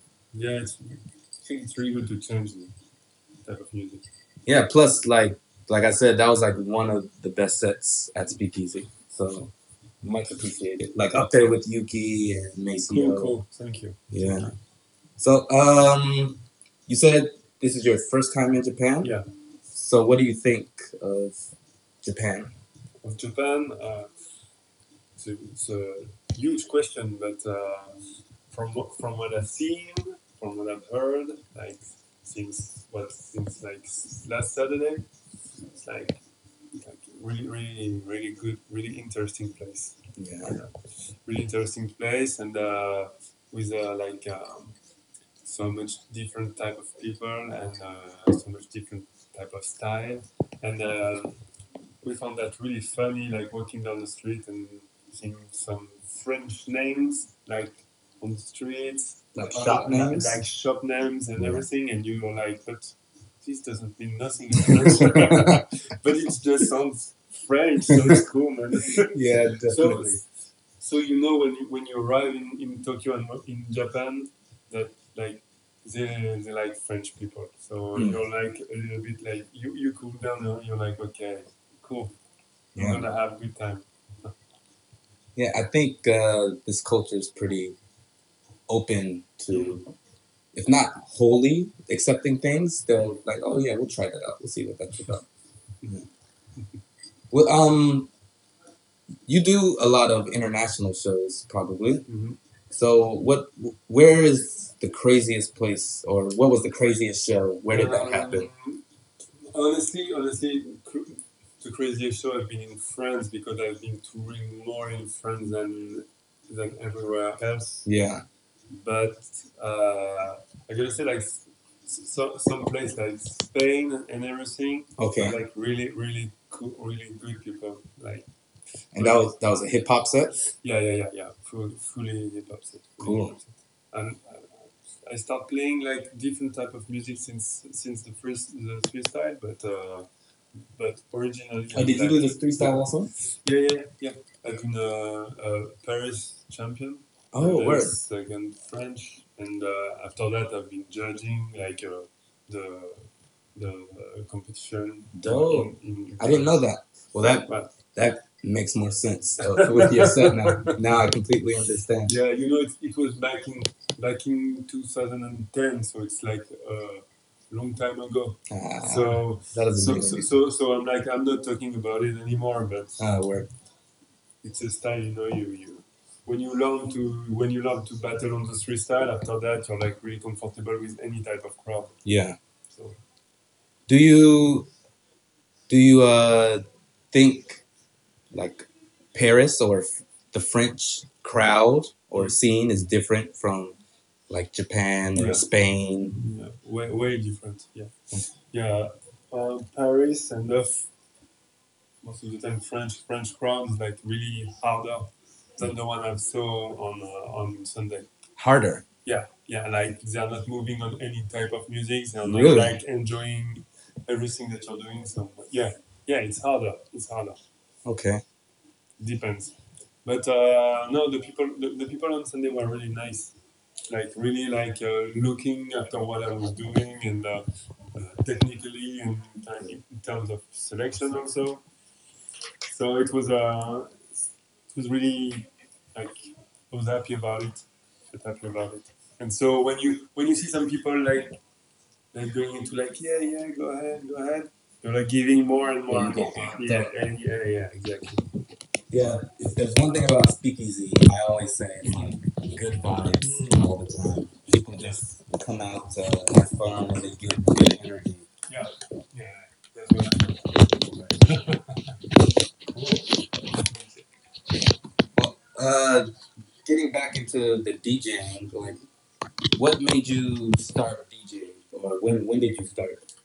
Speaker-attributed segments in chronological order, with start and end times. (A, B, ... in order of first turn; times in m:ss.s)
0:00.3-0:02.7 A
0:03.4-0:04.0 A
0:04.4-0:13.3 B
0:11.1-0:11.5 A
0:12.9-0:14.5 A
0:14.1-0:14.5 B
0:15.2-0:19.1 B
0:19.7-0:21.5 B
0:22.0-0:22.5 B
0:23.0-0:24.1 A
0:25.2-0:35.0 A
0:35.7-0:36.2 A
0:36.8-0:40.7 A
0:40.2-0:40.6 B
0:41.2-0:44.8 A
0:45.4-0:51.4 A
0:52.0-1:10.2 A
0:59.3-1:00.4 B
1:01.4-1:01.6 B
1:05.0-1:05.6 B
1:09.0-1:10.1 B
1:10.8-1:22.1 A
1:17.9-1:18.2 B
1:22.7-1:23.1 B
1:22.8-1:24.3 A
1:25.4-1:27.8 B
1:28.7-1:29.8 B
1:29.5-1:29.8 A
1:30.5-1:35.2 B
1:37.3-1:38.1 B
1:39.3-1:42.0 B
1:42.1-1:42.4 A
1:42.7-1:48.5 B
1:47.7-1:48.8 A
1:49.5-1:57.8 A
1:57.8-1:58.2 B
1:58.7-2:08.2 A
2:05.0-2:05.4 B
2:08.9-2:10.4 B
2:09.0-2:09.3 A
2:10.6-2:20.1 A
2:13.0-2:13.4 B
2:20.7-2:36.6 A
2:21.7-2:23.1 B
2:27.3-2:27.9 B
2:35.1-2:42.2 B
2:37.5-2:37.7 A
2:39.4-2:40.7 A
2:42.0-2:53.0 A
2:48.5-2:50.3 B
2:53.0-2:53.5 B
2:54.4-3:02.0 A
3:02.0-3:02.4 B
3:02.7-3:03.0 A
3:03.9-3:04.7 B
3:05.7-3:07.6 B
3:08.3-3:13.8 B
3:14.3-3:16.2 B
3:15.1-3:15.4 A
3:16.1-3:17.9 A
3:18.4-3:20.9 A
3:22.0-3:28.1 A
3:28.4-3:28.8 B
3:29.0-3:37.4 A
3:32.2-3:32.8 B
3:37.8-3:38.2 B
3:39.0-3:39.5 A
3:40.0-3:43.3 A
3:43.9-3:51.6 A
3:52.7-3:54.1 A
3:54.7-4:01.4 A
4:02.1-4:08.2 A
4:05.9-4:06.9 B
4:08.9-4:18.2 B
4:13.2-4:13.7 A
4:14.8-4:15.1 A
4:18.5-4:22.0 A
4:22.7-4:24.0 A
4:25.2-4:26.1 B
4:26.6-4:28.8 B
4:29.6-4:33.0 B